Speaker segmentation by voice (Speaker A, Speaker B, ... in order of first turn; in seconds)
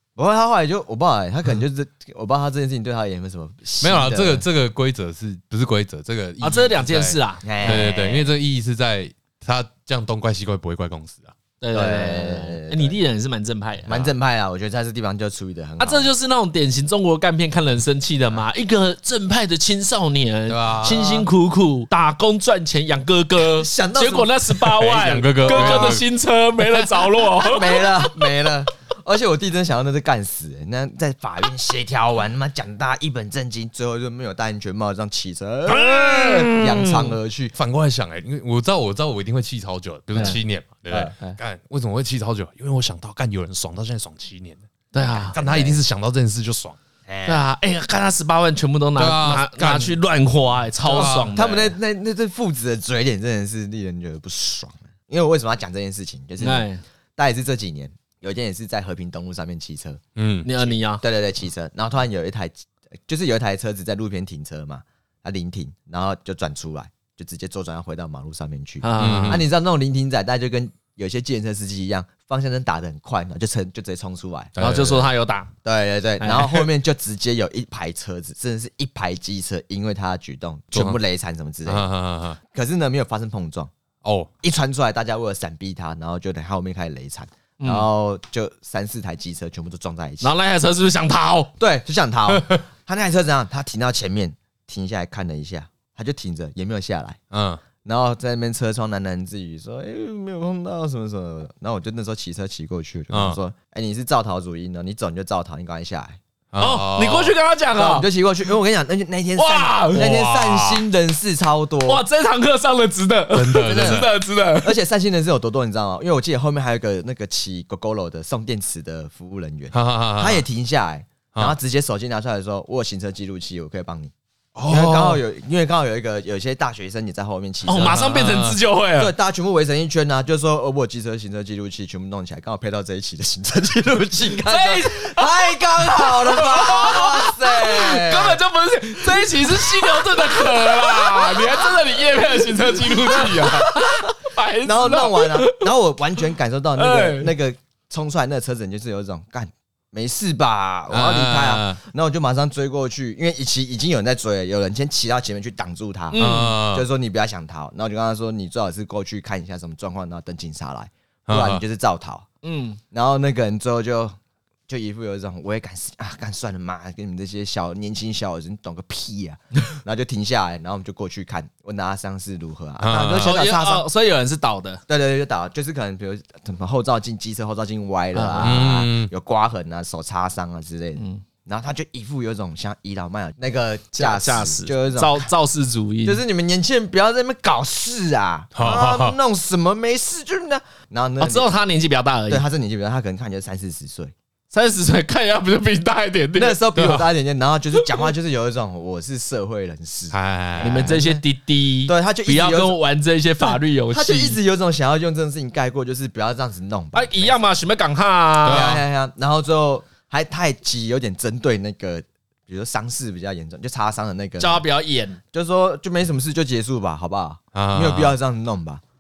Speaker A: 0.2-4.5, 7.4-8.3, 11.7-13.0, 13.9-16.1, 20.9-21.3, 23.4-24.4, 25.4-26.0, 27.2-37.5, 40.1-41.1, 45.4-45.8, 47.1-47.4, 50.9-60.0, 61.0-74.5, 75.6-81.9, 82.5-83.7, 84.4-90.3, 91.6-97.2, 97.8-106.2, 107.8-112.0, 113.6-124.1, 124.7-128.2, 129.0-138.4, 139.1-144.1, 144.6-162.3, 162.9-164.2, 164.7-173.9, 174.9-185.3, 186.1-191.5, 192.3-194.1, 196.4-201.2, 201.9-202.8, 203.4-207.4, 208.4-214.7, 215.3-218.8
Speaker B: 3.8-11.3, 20.5-21.1, 24.6-26.1, 37.5-44.6, 45.2-46.8, 49.0-50.0, 50.9-51.4, 60.2-60.5, 69.0-69.5, 74.6-75.1, 80.7-81.0, 81.7-82.4, 84.0-84.3, 92.3-92.6, 97.3-97.6, 103.1-103.4, 106.5-107.3, 109.9-110.8, 113.3-114.1, 119.7-120.4, 124.6-125.2, 127.8-128.6, 150.9-151.8, 156.2-156.9, 161.3-161.6, 172.8-173.4, 178.4-179.1, 188.6-189.2, 196.8-197.1, 200.1-201.0, 208.4-208.8, 217.5-218.2
Speaker C: 6.4-7.9, 11.6-14.1, 15.8-28.2, 35.7-37.1, 44.9-45.4, 47.3-51.8, 56.4-56.8, 60.4-61.0, 68.8-69.5, 74.6-75.5, 76.2-76.7, 87.6-87.9, 90.2-91.5, 106.6-108.1, 109.4-110.1, 111.9-114.8, 127.7-129.1, 134.3-145.7, 146.8-147.3, 156.1-156.6, 162.4-162.8, 173.2-174.8, 178.1-178.6, 181.0-181.2, 183.9-186.2, 191.2-192.5, 194.5-196.6, 200.6-204.4, 206.9-208.7, 214.4-215.2